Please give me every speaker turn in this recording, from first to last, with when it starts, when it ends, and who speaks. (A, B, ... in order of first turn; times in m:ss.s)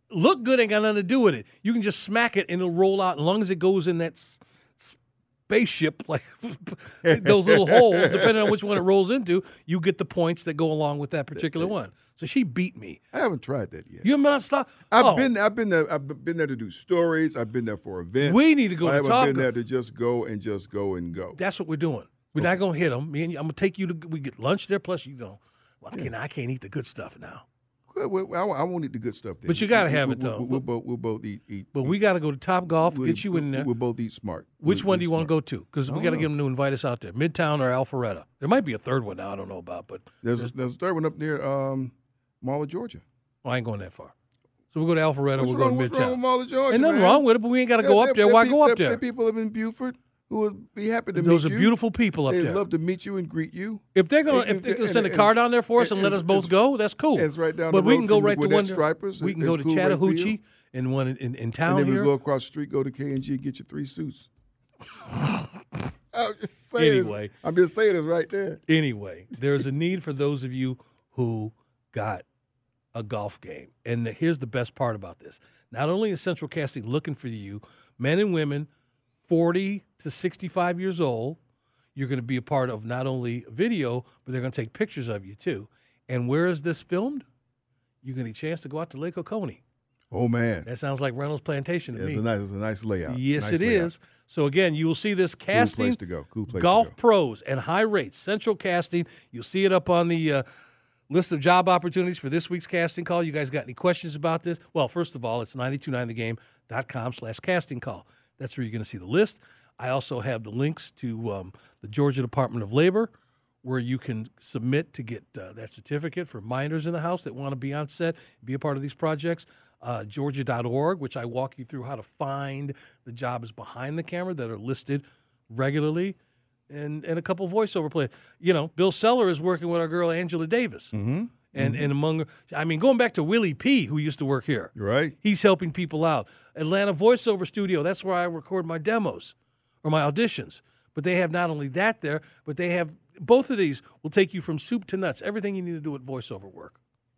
0:00.1-0:05.0 A
0:05.5-0:13.0 A
0:07.0-0:08.6 B
0:11.3-0:11.8 B
0:13.1-0:14.1 B
0:14.0-0:15.3 A
0:14.9-0:21.4 B
0:18.2-0:19.5 A
0:21.4-0:27.4 A
0:22.3-0:22.6 B
0:27.9-0:32.0 B
0:29.5-0:30.6 A
0:31.7-0:33.7 A
0:32.8-0:36.3 B
0:34.6-0:40.5 A
0:40.2-0:43.0 B
0:43.4-0:44.1 A
0:44.7-0:49.0 A
0:45.4-0:47.2 B
0:47.8-0:56.5 B
0:51.1-0:52.6 A
0:53.9-1:02.1 A
0:57.1-1:00.4 B
1:01.7-1:04.3 B
1:06.1-1:08.6 B
1:06.8-1:07.3 A
1:08.7-1:12.2 A
1:12.9-1:18.7 A
1:19.3-1:21.4 A
1:21.9-1:27.2 A
1:28.0-1:29.6 A
1:30.1-1:30.7 B
1:30.6-1:32.2 A
1:31.9-1:33.9 B
1:33.0-1:40.4 A
1:35.5-1:36.9 B
1:41.1-1:53.1 A
1:53.6-2:06.2 A
2:06.7-2:10.9 A
2:10.9-2:11.9 B
2:11.5-2:26.8 A
2:14.7-2:15.2 B